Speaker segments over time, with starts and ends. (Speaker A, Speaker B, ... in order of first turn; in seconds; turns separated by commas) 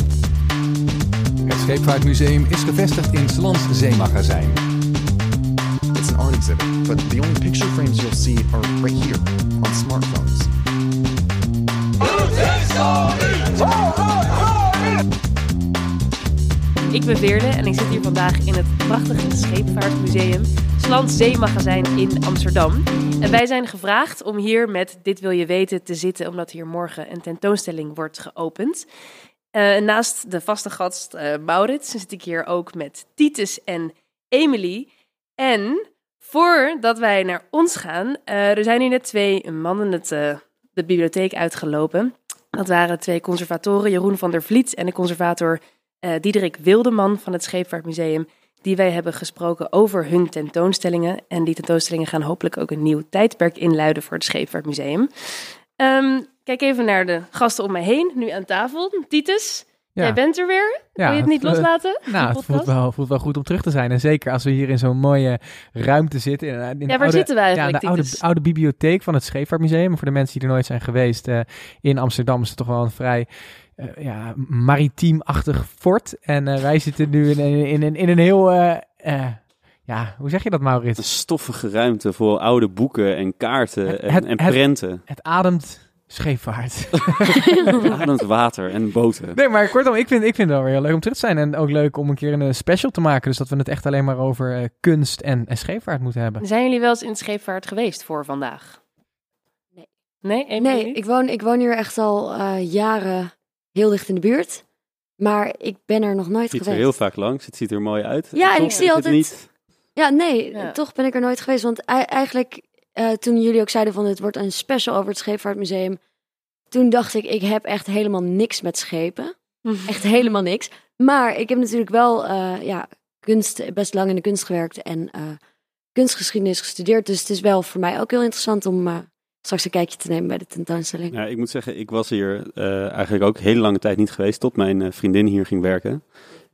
Speaker A: 1.5-4.6, Speaker B: 5.9-10.5, Speaker C: 16.9-28.9, Speaker C: 29.5-62.7, Speaker D: 61.0-81.0, Speaker C: 66.9-68.2, Speaker E: 81.0-85.1, Speaker D: 83.9-87.7, Speaker E: 87.9-89.4, Speaker D: 89.3-96.4, Speaker C: 96.4-98.8, Speaker C: 100.2-101.0, Speaker F: 100.6-104.6, Speaker F: 105.2-106.9, Speaker E: 106.5-109.5, Speaker F: 108.3-109.3, Speaker F: 110.0-116.0, Speaker F: 116.7-125.4, Speaker C: 119.7-119.9, Speaker F: 126.0-131.2, Speaker E: 131.1-136.2